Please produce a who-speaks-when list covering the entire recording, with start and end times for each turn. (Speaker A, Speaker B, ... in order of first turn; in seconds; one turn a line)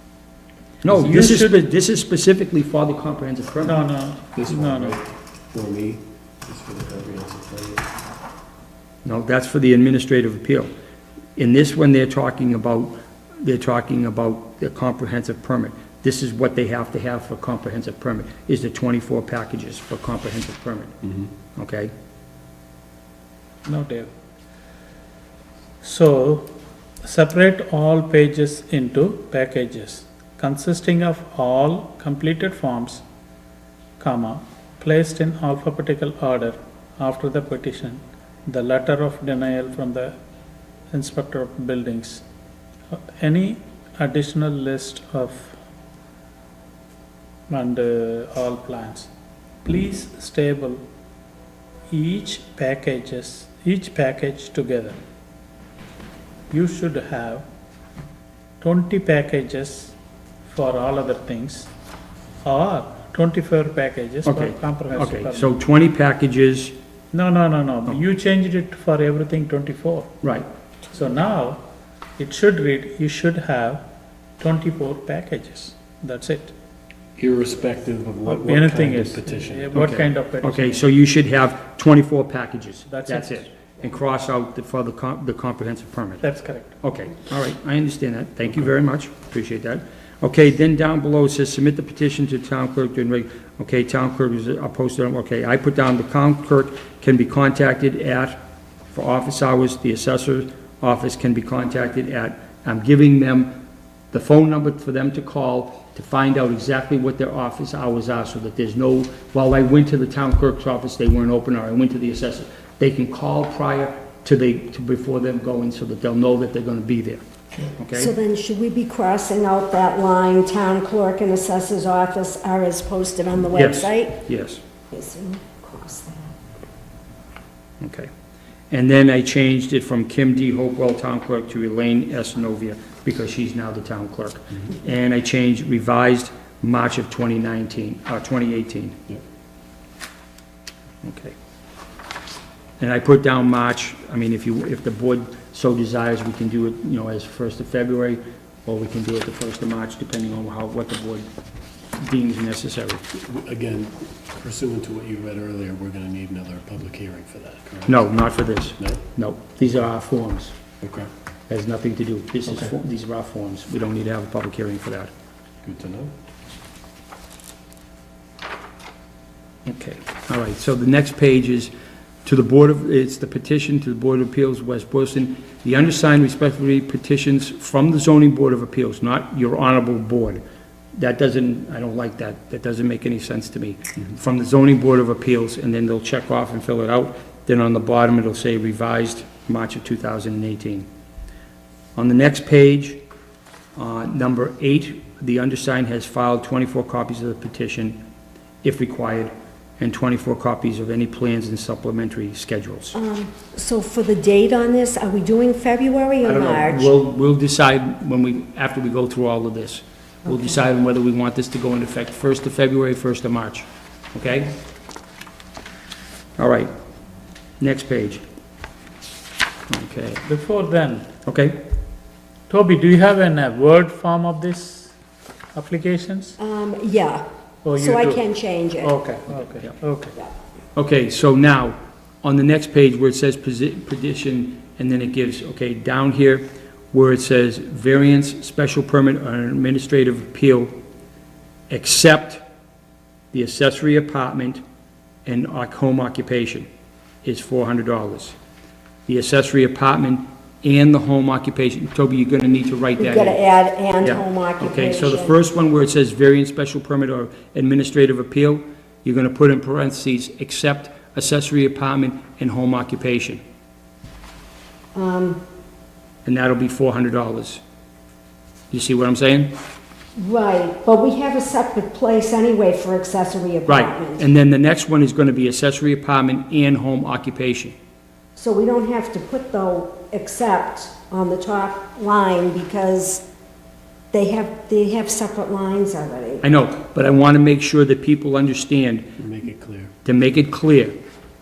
Speaker A: 0.8-3.8
Speaker B: 0.9-1.6
Speaker B: 3.6-5.0
Speaker C: 4.3-7.8
Speaker A: 9.0-10.7
Speaker A: 11.4-20.9
Speaker A: 21.6-21.9
Speaker B: 23.6-24.1
Speaker B: 25.8-33.0
Speaker B: 34.0-40.2
Speaker B: 40.9-42.2
Speaker B: 42.9-45.6
Speaker B: 47.5-49.1
Speaker B: 49.6-50.8
Speaker B: 51.9-55.0
Speaker B: 56.5-57.4
Speaker B: 58.6-61.7
Speaker B: 62.4-65.5
Speaker A: 64.2-66.8
Speaker B: 67.1-70.1
Speaker A: 70.2-70.5
Speaker B: 70.9-71.6
Speaker B: 72.2-73.8
Speaker B: 74.4-76.5
Speaker C: 77.2-79.7
Speaker B: 78.3-80.9
Speaker A: 79.7-86.2
Speaker B: 82.9-83.5
Speaker B: 86.2-86.7
Speaker A: 86.8-103.6
Speaker A: 104.1-118.1
Speaker D: 117.9-124.2
Speaker A: 123.5-124.6
Speaker D: 124.9-126.3
Speaker A: 127.8-128.1
Speaker A: 128.7-139.0
Speaker A: 141.0-141.3
Speaker A: 142.8-151.3
Speaker A: 152.0-153.0
Speaker C: 153.2-157.9
Speaker A: 157.9-160.6
Speaker C: 160.8-161.1
Speaker A: 161.5-165.1
Speaker C: 165.6-166.1
Speaker A: 169.7-171.7
Speaker A: 172.2-180.4
Speaker A: 181.0-190.9
Speaker A: 192.0-193.0
Speaker A: 193.8-198.0
Speaker A: 198.6-203.0
Speaker D: 202.9-206.9
Speaker A: 206.2-214.6
Speaker A: 216.4-216.7
Speaker A: 217.6-218.2
Speaker A: 219.7-220.2
Speaker B: 220.2-221.1
Speaker A: 221.3-221.6
Speaker B: 222.5-224.9
Speaker B: 225.5-226.4
Speaker D: 226.4-227.2
Speaker B: 227.6-228.2
Speaker D: 227.8-229.0
Speaker B: 228.8-230.2
Speaker A: 230.8-240.7
Speaker A: 241.7-242.4
Speaker A: 243.3-244.6
Speaker A: 245.2-246.7
Speaker A: 247.2-248.4
Speaker A: 249.1-253.4
Speaker D: 253.0-255.4
Speaker A: 254.0-263.4
Speaker D: 264.9-265.4
Speaker A: 266.2-267.6
Speaker A: 268.7-269.5
Speaker D: 270.2-274.2
Speaker A: 273.7-277.7
Speaker D: 278.4-283.2
Speaker D: 284.1-286.4
Speaker A: 286.4-289.1
Speaker C: 289.2-289.9
Speaker A: 290.1-291.0